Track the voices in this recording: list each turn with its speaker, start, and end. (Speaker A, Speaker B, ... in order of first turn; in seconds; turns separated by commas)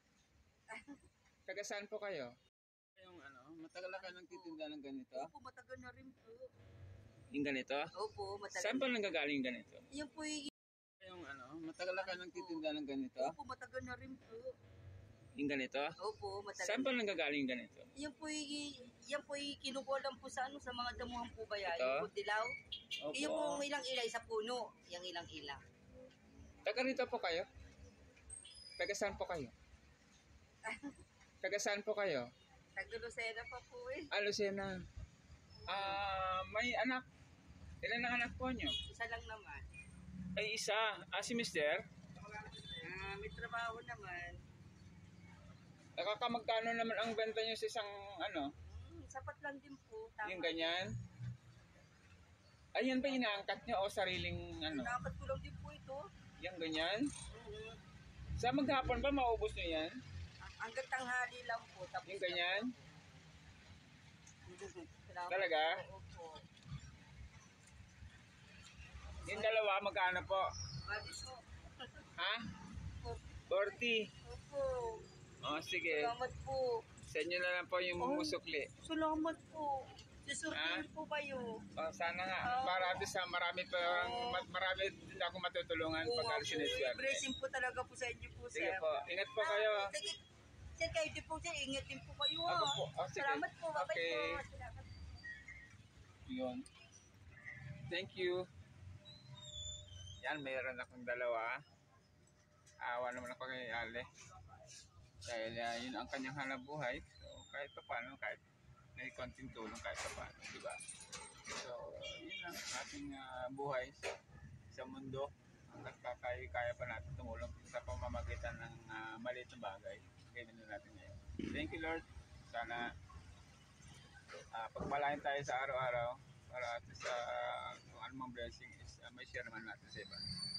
Speaker A: 0.7-1.0, Speaker B: 1.5-2.4, Speaker B: 3.0-5.3, Speaker A: 4.0-4.6, Speaker A: 5.1-6.5, Speaker B: 7.3-7.9, Speaker A: 7.9-8.9, Speaker B: 8.5-9.8, Speaker A: 9.9-10.5, Speaker B: 11.0-13.3, Speaker A: 12.0-12.6, Speaker A: 13.2-14.5, Speaker B: 15.3-15.9, Speaker A: 16.0-16.9, Speaker B: 16.6-17.9, Speaker A: 17.9-22.5, Speaker B: 21.7-22.1, Speaker B: 23.0-23.6, Speaker A: 23.1-25.6, Speaker B: 26.6-27.5, Speaker B: 28.8-29.5, Speaker A: 30.6-30.9, Speaker B: 31.4-32.3, Speaker A: 32.8-34.1, Speaker B: 34.1-34.8, Speaker A: 35.6-36.0, Speaker B: 35.7-37.0, Speaker B: 37.8-38.8, Speaker A: 38.8-39.7, Speaker B: 40.4-41.8, Speaker A: 42.3-44.4, Speaker B: 46.0-48.5, Speaker A: 48.6-50.8, Speaker B: 50.2-50.9, Speaker B: 52.7-54.9, Speaker A: 54.7-56.1, Speaker B: 56.4-57.1, Speaker A: 57.3-57.8, Speaker B: 58.4-60.0, Speaker A: 60.4-62.9, Speaker B: 62.0-62.7, Speaker A: 64.5-66.4, Speaker B: 65.3-65.8, Speaker B: 69.2-70.5, Speaker A: 69.3-69.5, Speaker A: 70.9-72.0, Speaker B: 72.2-72.5, Speaker A: 73.0-73.6, Speaker B: 73.5-74.1, Speaker A: 74.2-75.0, Speaker B: 75.4-76.1, Speaker A: 75.8-76.8, Speaker B: 77.0-78.7, Speaker A: 78.0-81.6, Speaker B: 80.5-80.8, Speaker B: 81.8-87.2, Speaker A: 82.4-83.1, Speaker A: 83.8-84.5, Speaker A: 86.0-90.2, Speaker B: 88.5-89.9, Speaker A: 90.8-94.9, Speaker B: 92.5-94.4, Speaker B: 96.2-96.6, Speaker B: 97.9-98.5, Speaker B: 100.2-101.6, Speaker B: 102.8-104.1, Speaker B: 105.2-108.4, Speaker B: 109.0-110.8, Speaker B: 111.5-114.0, Speaker B: 114.7-122.9, Speaker B: 124.5-130.3